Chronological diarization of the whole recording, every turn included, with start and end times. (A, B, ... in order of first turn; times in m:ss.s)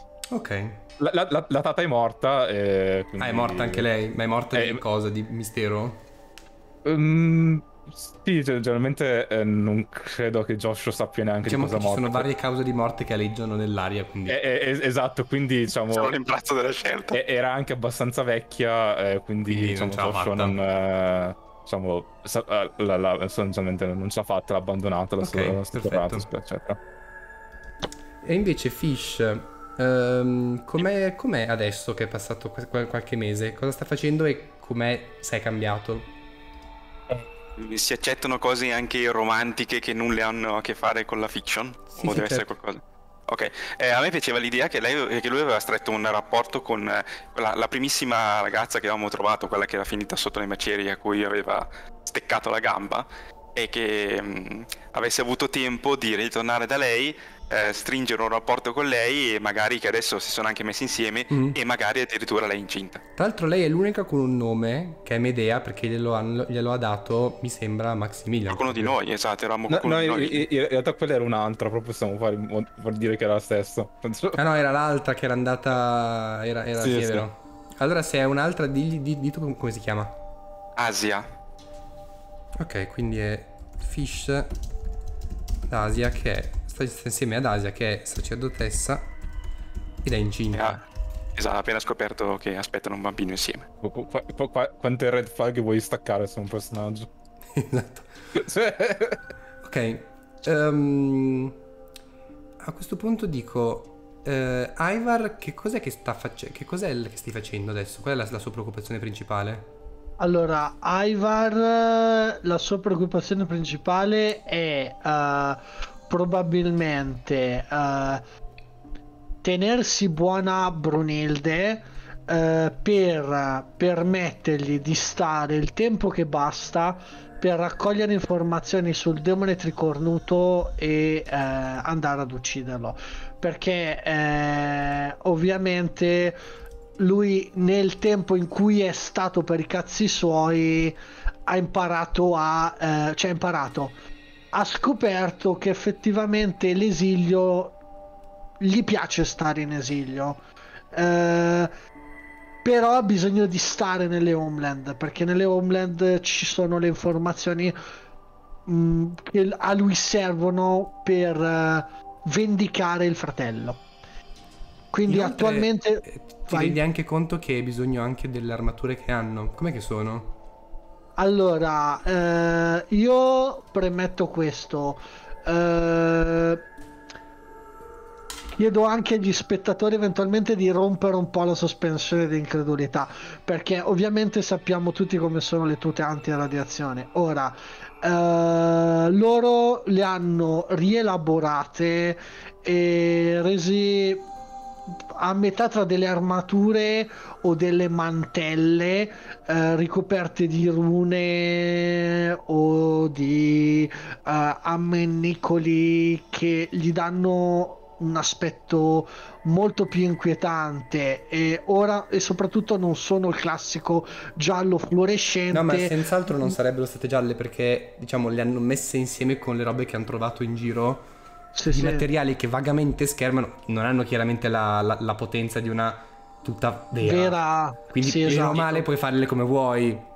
0:00.3-0:00.8 A
0:01.0-0:03.9 B
0:03.2-0:06.0 A
0:04.6-0:04.8 B
0:06.8-0:12.3 B
0:11.4-0:14.4 A
0:14.3-0:16.2 B
0:15.9-0:17.2 C
0:17.1-0:26.8 B
0:19.4-0:20.6 A
0:25.2-0:26.3 A
0:28.2-0:36.1 A
0:37.6-1:03.0 C
0:42.0-0:42.4 A
1:01.3-1:01.6 A
1:03.2-1:09.0 A
1:08.5-1:10.5 C
1:09.7-1:14.4 B
1:14.3-1:20.2 A
1:16.8-1:17.3 B
1:20.8-1:21.3 C
1:22.6-1:24.6 A
1:25.7-1:29.1 A
1:30.0-1:30.8 A
1:30.5-1:30.8 C
1:31.4-1:33.7 C
1:33.8-1:37.1 B
1:37.5-1:38.2 A
1:38.3-1:39.2 B
1:39.6-1:41.6 A
1:42.6-1:49.7 A
1:50.2-1:58.2 D
1:59.4-2:16.4 D
2:17.0-2:24.0 D
2:24.5-2:27.8 D
2:28.6-2:31.7 D
2:32.6-2:37.8 D
2:38.7-2:43.8 D
2:44.9-2:46.8 D
2:45.1-2:50.3 A
2:51.2-2:56.7 D
2:58.5-3:14.3 D
3:15.1-3:36.6 D
3:35.5-3:41.1 A
3:41.6-3:42.1 D
3:41.7-3:50.1 A
3:47.0-3:48.9 D